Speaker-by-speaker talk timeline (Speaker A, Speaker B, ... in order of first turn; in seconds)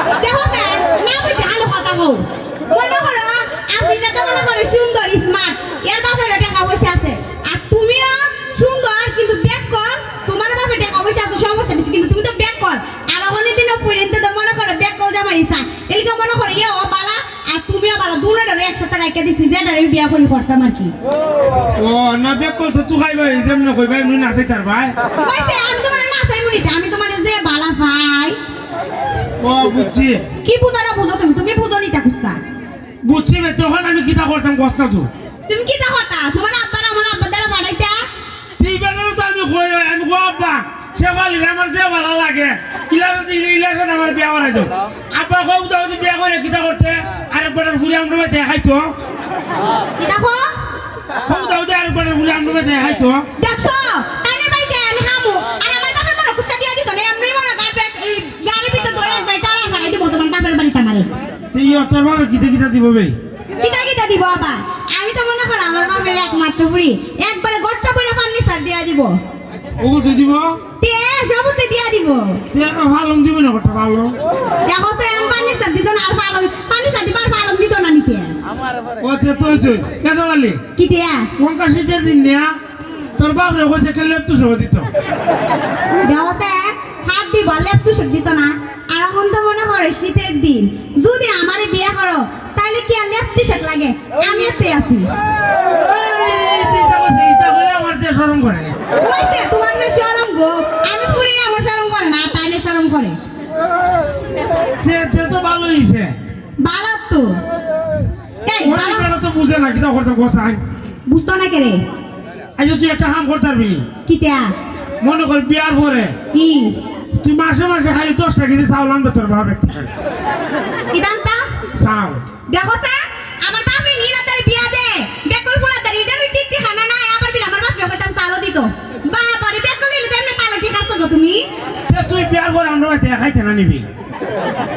Speaker A: 0.2-20.9, 25.2-28.4, 30.4-32.4, 35.5-38.0, 50.0-50.5, 53.4-61.1, 63.6-69.2, 70.8-72.4, 74.7-78.4, 80.8-81.3, 86.0-95.1, 99.0-103.2, 106.6-107.4, 108.4-109.1, 111.1-111.8, 114.0-114.5, 116.3-116.8, 120.9-121.5, 122.5-131.4
Speaker B: 21.8-24.9, 29.4-30.2, 33.0-35.1, 38.6-48.9, 51.2-53.2, 61.5-63.1, 69.8-70.6, 72.5-74.1, 79.0-80.6, 81.4-82.5, 83.2-84.9, 95.8-98.8, 104.8-106.1, 108.6-110.6, 112.6-113.8, 115.0-116.1, 117.2-119.9, 121.7-122.2, 131.9-133.9